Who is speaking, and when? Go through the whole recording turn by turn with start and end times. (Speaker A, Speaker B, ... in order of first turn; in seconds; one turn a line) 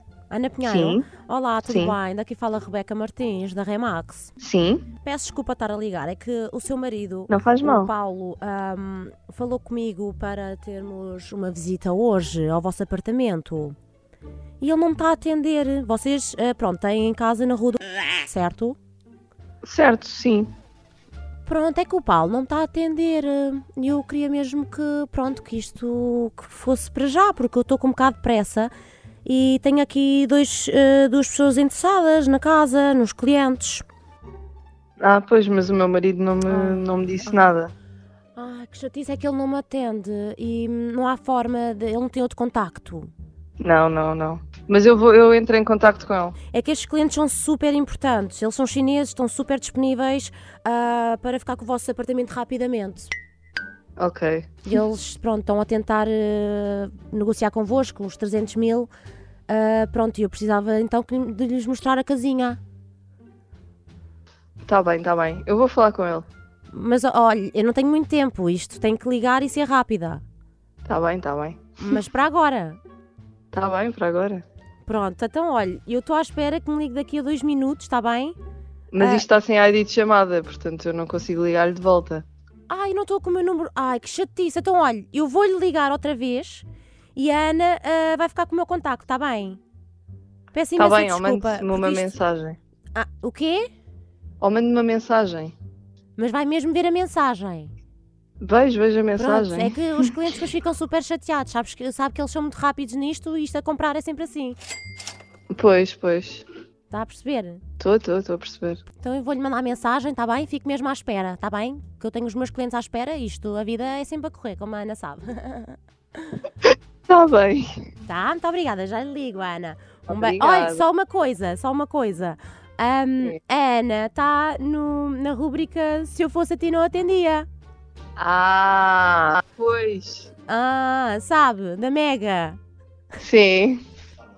Speaker A: 0.3-4.3
Speaker B: 0.6-1.1
Speaker B: 1.6-2.0
Speaker B: 4.4-4.9
Speaker A: 5.0-13.8
Speaker B: 7.3-7.9
Speaker A: 14.6-18.8
Speaker B: 19.6-20.5
Speaker A: 21.4-28.7
Speaker A: 29.2-33.8
Speaker B: 35.0-37.7
Speaker A: 36.5-37.5
Speaker A: 38.4-43.1
Speaker B: 43.6-46.4
Speaker A: 46.5-53.1
Speaker B: 54.0-54.6
Speaker A: 54.6-58.9
Speaker A: 59.5-62.6
Speaker B: 64.7-66.2
Speaker A: 66.7-70.2
Speaker B: 70.8-72.0
Speaker A: 71.8-72.8
Speaker B: 73.5-74.4
Speaker A: 74.8-78.3
Speaker B: 78.9-82.2
Speaker A: 79.0-79.3
Speaker A: 82.7-89.6
Speaker A: 90.5-92.2
Speaker B: 90.8-92.6
Speaker A: 92.9-93.7
Speaker B: 94.4-95.5
Speaker A: 96.2-97.7
Speaker B: 98.4-100.1
Speaker A: 99.2-104.6
Speaker B: 105.5-106.4
Speaker A: 106.9-107.6
Speaker B: 107.8-108.8
Speaker A: 109.0-116.4
Speaker B: 117.1-117.7
Speaker A: 118.1-127.5
Speaker B: 120.1-120.8
Speaker B: 128.2-130.3
Speaker A: 130.5-132.6
Speaker B: 133.2-133.8